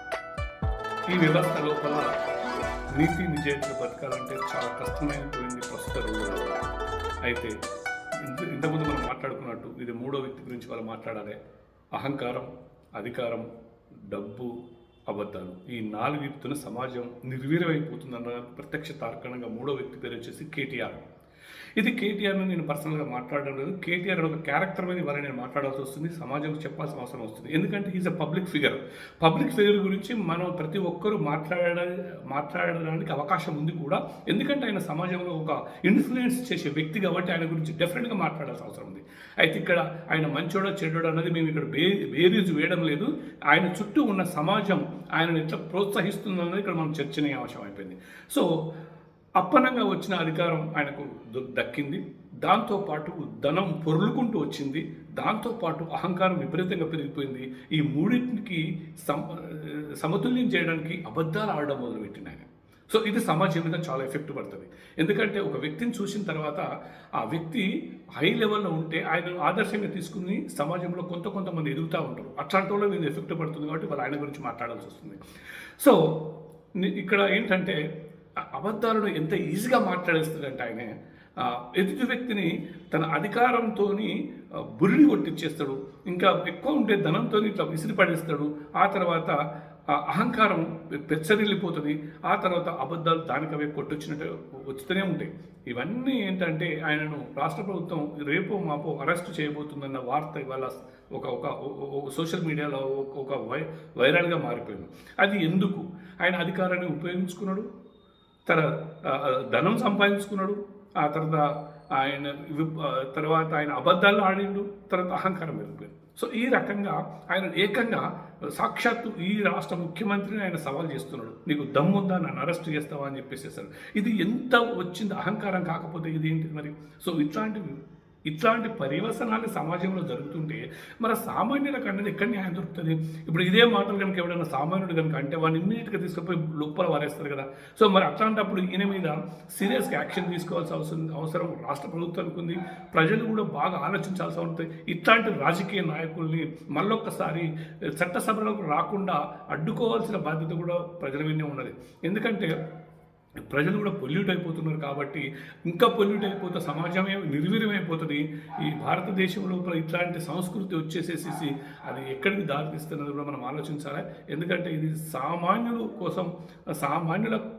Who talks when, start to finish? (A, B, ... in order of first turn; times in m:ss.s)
0:01.1-0:02.1 A
0:02.9-0:06.6 A
0:07.2-0:07.6 A
0:08.2-0:11.4 A
0:12.0-0:13.5 A
0:14.1-0:14.5 A
0:15.1-0:21.0 A
0:21.8-0:48.5 A
0:49.4-1:06.7 A
1:07.2-1:07.7 A
1:08.2-1:15.2 A
1:15.8-1:16.2 A
1:16.8-1:17.8 A
1:18.4-1:29.4 A
1:29.9-1:47.7 A
1:48.5-2:07.8 A
2:08.3-2:32.5 A
2:33.5-2:47.4 A